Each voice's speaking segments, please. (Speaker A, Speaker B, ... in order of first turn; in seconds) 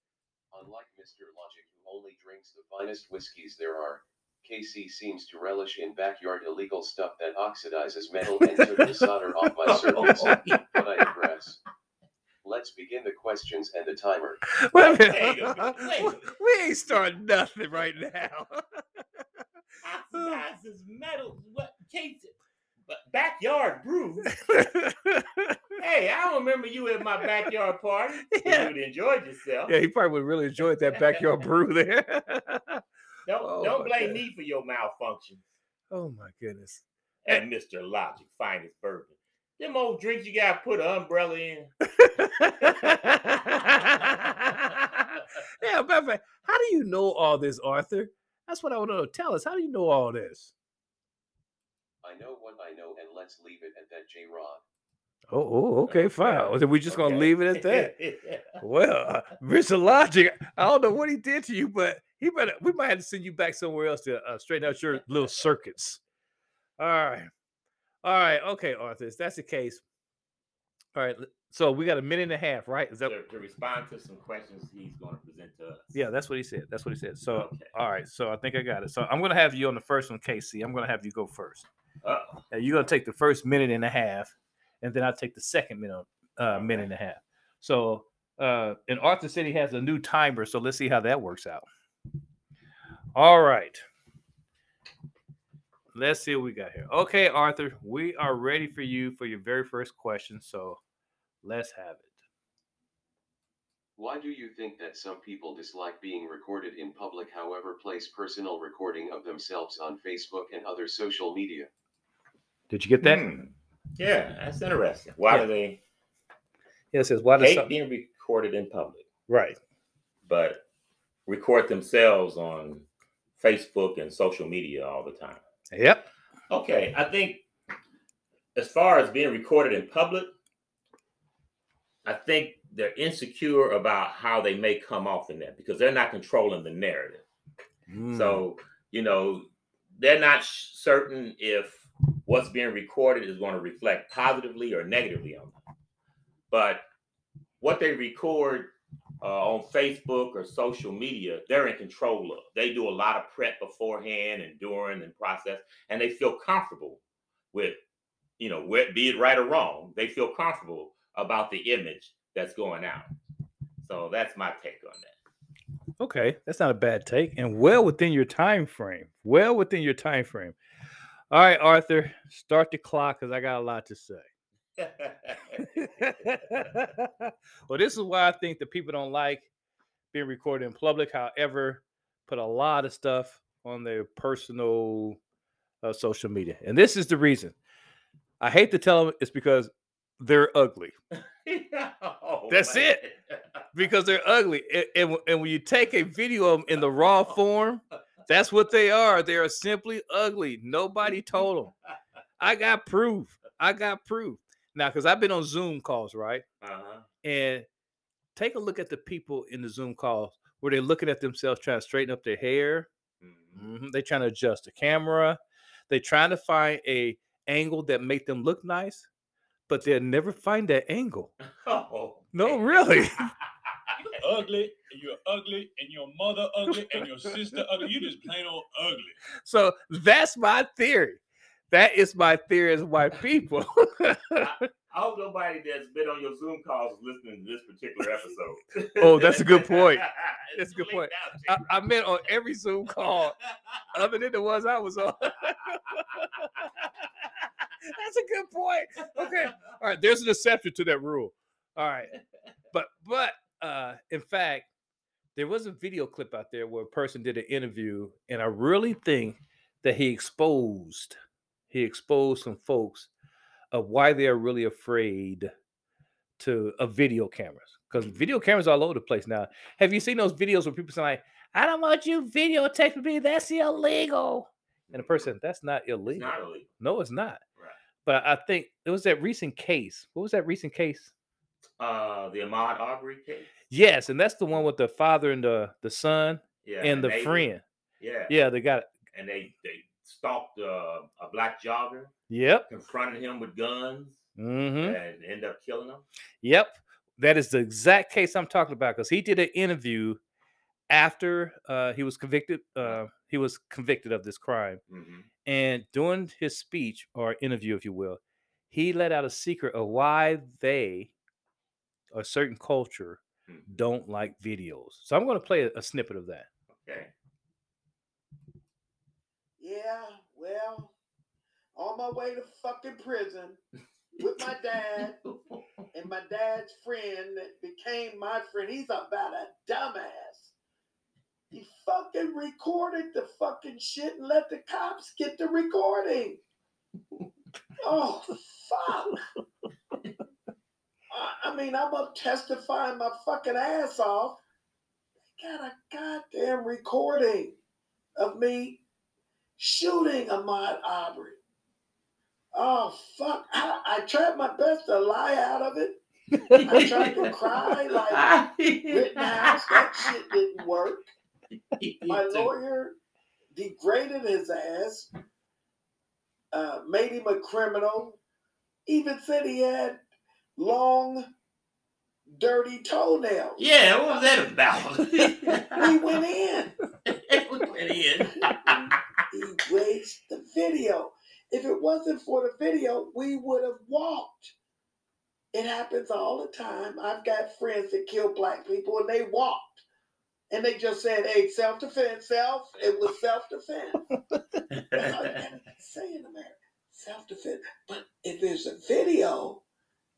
Speaker A: 0.5-11.6, 12.4-14.4, 52.0-54.6, 104.0-111.7
Speaker B: 8.6-8.9, 14.5-18.8, 20.1-20.4, 24.3-25.6, 28.4-28.7, 29.7-32.8, 33.4-34.2, 35.9-37.4, 41.9-50.5, 55.3-57.9, 58.6-66.0, 66.8-67.3, 68.0-69.8, 70.9-73.1, 75.9-81.7, 82.5-91.7, 93.2-93.8, 95.9-100.8, 101.4-102.1, 112.7-113.2, 116.9-117.7, 119.3-119.6, 125.7-126.1, 137.9-138.4, 166.0-170.6, 171.3-174.2, 175.6-179.5, 180.1-185.2, 185.8-187.5, 188.4-190.9, 192.5-193.0, 193.7-201.7, 202.4-206.4, 207.2-207.7, 208.3-212.9, 213.5-215.4, 215.9-219.1, 219.7-221.3, 222.3-223.3, 229.4-234.5, 239.0-243.3, 243.9-246.7, 247.9-252.2, 252.7-254.7, 255.3-261.1, 261.7-263.1, 263.7-265.5, 266.4-277.4, 278.1-281.1, 283.7-287.6, 288.3-288.9, 292.3-292.7, 294.4-295.0, 296.4-300.2, 300.9-304.8, 305.4-308.2, 308.7-311.1, 312.1-316.5, 356.5-356.7
Speaker C: 9.6-10.6, 14.8-16.2, 19.8-22.3, 22.9-24.3, 25.8-29.8, 30.6-31.5, 33.2-35.4, 37.2-41.7, 55.9-58.6, 73.0-75.9, 77.3-77.7, 82.0-82.4, 86.5-86.9, 113.0-115.8, 117.4-119.0, 120.2-120.6, 121.3-122.8, 123.4-125.4, 126.5-127.4, 128.6-130.3, 132.0-137.2, 138.1-145.6, 146.5-146.8, 147.6-157.0, 157.5-157.8, 158.4-163.1, 163.8-165.1, 174.8-175.6, 191.4-193.6, 206.6-207.1, 213.2-213.6, 221.6-223.0, 234.3-241.9, 243.4-243.9, 249.2-249.7, 274.9-275.2, 276.1-276.7, 281.8-283.5, 286.6-287.5, 288.0-288.3, 289.1-292.1, 292.7-294.2, 294.8-296.0, 304.9-305.3, 316.7-317.1, 324.9-325.7, 356.7-357.2, 358.1-360.0, 361.8-362.5, 373.6-375.9, 377.1-378.9, 394.8-395.1
Speaker D: 224.2-229.2
Speaker E: 319.6-320.9, 321.7-323.6, 324.1-325.2, 325.9-330.5, 331.5-336.4, 337.8-339.2, 341.1-344.4, 345.3-347.6, 348.1-348.8, 349.6-351.4, 352.5-356.0, 356.6-361.1, 362.1-363.0, 363.5-365.1, 366.5-368.2, 368.9-370.0, 370.6-371.3, 372.3-374.5, 375.7-376.7, 378.4-384.5, 385.5-389.8, 390.5-394.0, 394.9-399.6